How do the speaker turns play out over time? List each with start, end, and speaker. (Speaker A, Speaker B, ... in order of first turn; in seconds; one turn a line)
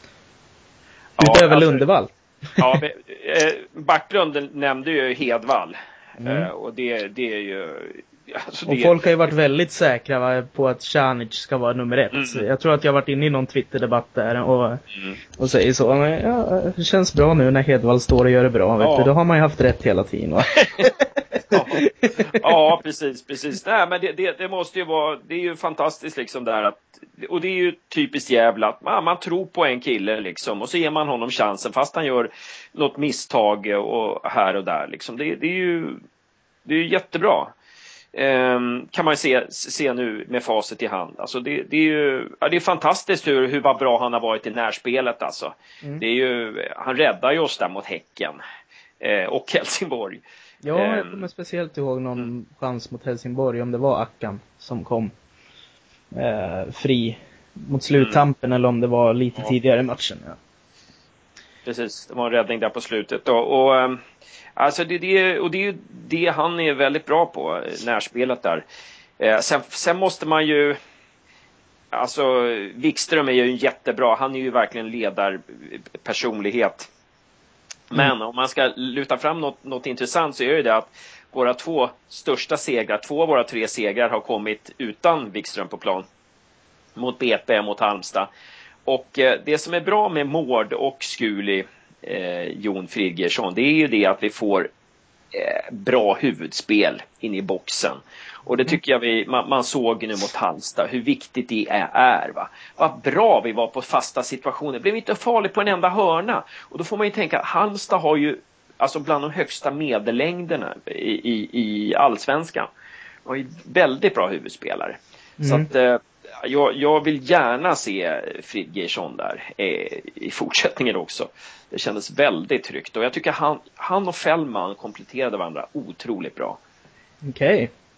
Speaker A: 1.2-1.8
Speaker B: 1.2-2.8
Speaker A: 2.6-9.0
Speaker B: 6.2-6.5
Speaker B: 8.7-14.8
Speaker A: 12.1-12.4
Speaker B: 15.4-22.2
Speaker A: 18.8-19.1
Speaker A: 21.5-36.0
Speaker A: 36.6-37.5
Speaker A: 38.1-48.4
Speaker A: 49.0-50.2
Speaker B: 50.6-55.1
Speaker A: 50.7-51.3
Speaker B: 56.1-60.4
Speaker A: 61.6-64.0
Speaker A: 64.5-68.6
Speaker A: 69.2-70.8
Speaker A: 71.9-76.9
Speaker A: 77.9-86.0
Speaker A: 87.0-88.3
Speaker A: 88.9-94.7
Speaker A: 95.3-112.7
Speaker A: 113.2-126.6
Speaker B: 115.4-115.7
Speaker B: 127.2-127.7